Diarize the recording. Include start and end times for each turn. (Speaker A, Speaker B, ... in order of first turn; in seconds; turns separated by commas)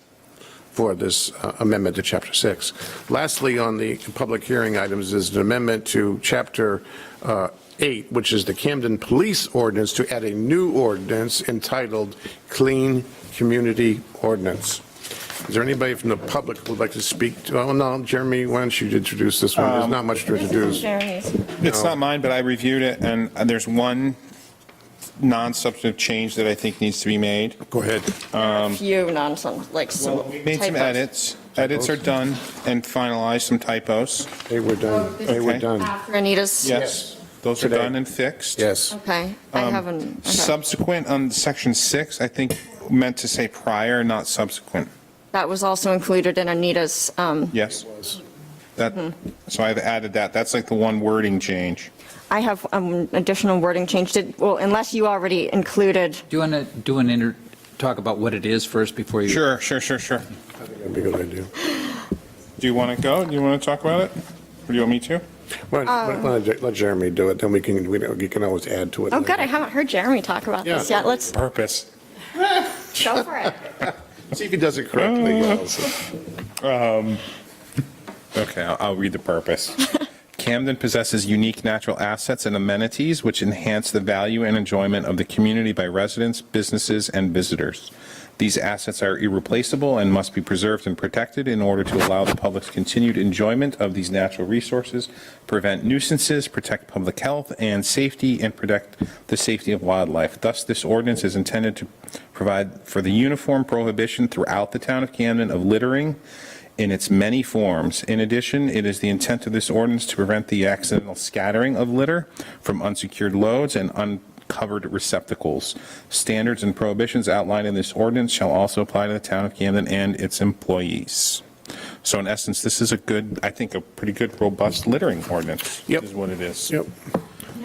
Speaker A: 0.7-20.9, Speaker B: 19.6-20.0, Speaker C: 20.3-21.5, Speaker B: 21.6-24.2, Speaker A: 21.6-22.0, Speaker B: 25.2-27.6, Speaker A: 27.7-28.1, Speaker B: 28.2-28.8, Speaker C: 28.4-31.1, Speaker B: 30.0-34.3, Speaker A: 31.6-32.0, Speaker A: 34.5-35.9, Speaker B: 35.2-35.7, Speaker C: 35.8-36.9, Speaker B: 36.6-38.7, Speaker A: 36.7-37.1, Speaker A: 37.6-37.9, Speaker A: 38.6-39.0, Speaker C: 38.9-40.5, Speaker B: 39.5-44.9, Speaker C: 45.3-47.5, Speaker B: 47.5-48.0, Speaker B: 48.8-51.9, Speaker C: 52.3-56.2, Speaker D: 56.3-59.4, Speaker B: 59.3-60.2, Speaker A: 60.6-61.5, Speaker B: 62.6-64.1, Speaker B: 64.7-65.2, Speaker A: 65.7-69.5, Speaker C: 69.1-71.3, Speaker B: 71.2-71.9, Speaker C: 72.8-73.6, Speaker A: 74.3-76.0, Speaker B: 75.0-75.7, Speaker B: 76.6-77.2, Speaker B: 78.3-106.2, Speaker B: 106.8-121.4, Speaker B: 122.0-126.8